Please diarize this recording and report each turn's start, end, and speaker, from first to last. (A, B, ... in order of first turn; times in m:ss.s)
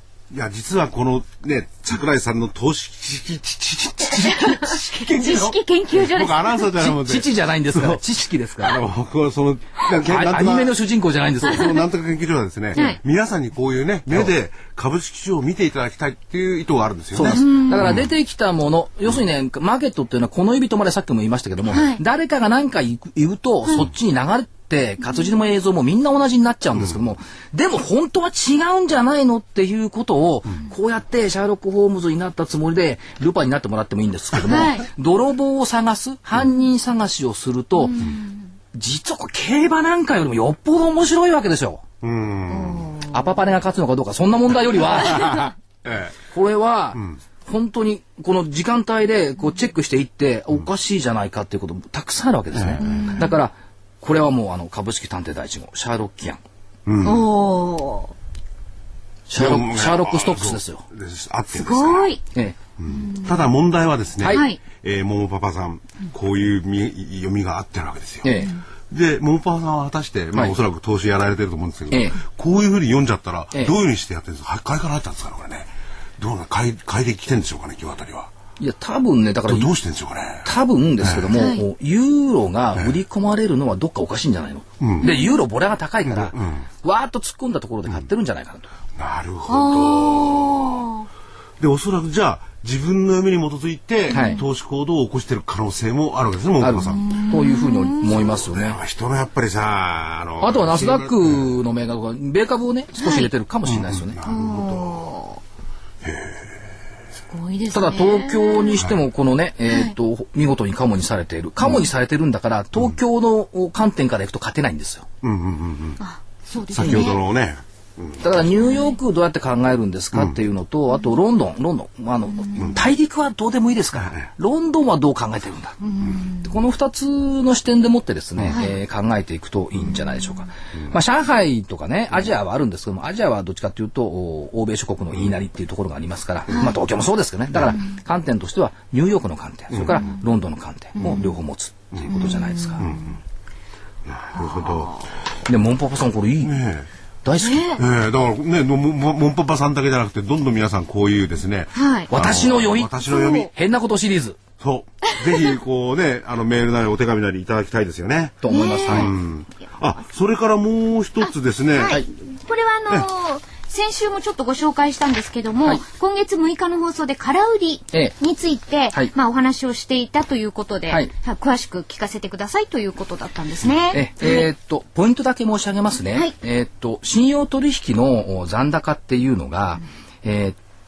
0:00.3-0:08.0 A
0:04.1-0:06.7 B
0:06.8-0:08.8 C
0:08.6-0:10.8 A
0:10.0-0:11.8 C
0:11.4-0:18.1 A
0:12.8-0:13.0 B
0:17.1-0:38.2 C
0:17.2-0:17.9 B
0:21.7-0:22.0 B
0:34.5-0:34.9 B
0:37.8-0:38.3 B
0:38.7-0:41.8 C
0:42.0-0:43.0 A
0:42.5-0:43.2 B
0:43.1-0:45.5 C
0:45.1-0:46.1 A
0:46.3-0:56.4 C
0:52.5-0:53.3 A
0:52.8-0:53.4 B
0:56.9-0:57.3 A
0:57.0-0:58.1 B
0:59.3-1:00.8 C
0:59.4-1:02.2 A
1:01.5-1:02.2 B
1:02.8-1:18.3 A
1:02.9-1:03.5 B
1:04.2-1:04.5 C
1:04.3-1:04.6 B
1:08.2-1:08.6 C
1:11.9-1:12.2 C
1:18.6-1:19.7 C
1:19.5-1:20.5 A
1:20.4-1:28.7 C
1:21.0-1:21.3 A
1:21.3-1:21.6 B
1:24.8-1:25.1 A
1:25.0-1:25.4 B
1:26.1-1:26.6 A
1:29.0-1:30.9 A
1:29.5-1:31.1 B
1:31.6-1:37.1 A
1:34.1-1:34.4 B
1:34.1-1:34.4 C
1:36.6-1:38.8 C
1:36.9-1:38.3 B
1:38.1-1:41.5 A
1:40.4-1:44.2 C
1:43.0-1:43.3 B
1:43.7-1:45.0 A
1:44.2-1:45.4 B
1:46.0-1:46.5 A
1:47.3-1:48.8 B
1:47.7-1:55.1 C
1:49.7-1:50.0 B
1:55.2-1:56.0 A
1:56.0-1:57.2 B
1:56.7-1:58.4 A
1:56.8-1:57.1 C
1:58.2-2:05.8 C
2:05.8-2:06.5 B
2:06.4-2:22.9 C
2:08.5-2:08.7 B
2:19.7-2:20.0 A
2:19.9-2:20.2 B
2:21.0-2:21.4 B
2:22.1-2:23.1 B
2:22.8-2:23.2 A
2:24.0-2:25.0 A
2:24.4-2:25.0 B
2:25.4-2:26.6 C
2:26.4-2:26.9 A
2:27.2-2:27.8 C
2:27.4-2:27.8 B
2:27.8-2:33.5 A
2:31.8-2:32.1 B
2:32.1-2:34.4 C
2:33.1-2:33.4 B
2:34.6-2:42.0 A
2:35.1-2:35.5 B
2:38.4-2:39.1 C
2:38.5-2:39.2 B
2:41.3-2:54.5 B
2:53.9-3:00.6 C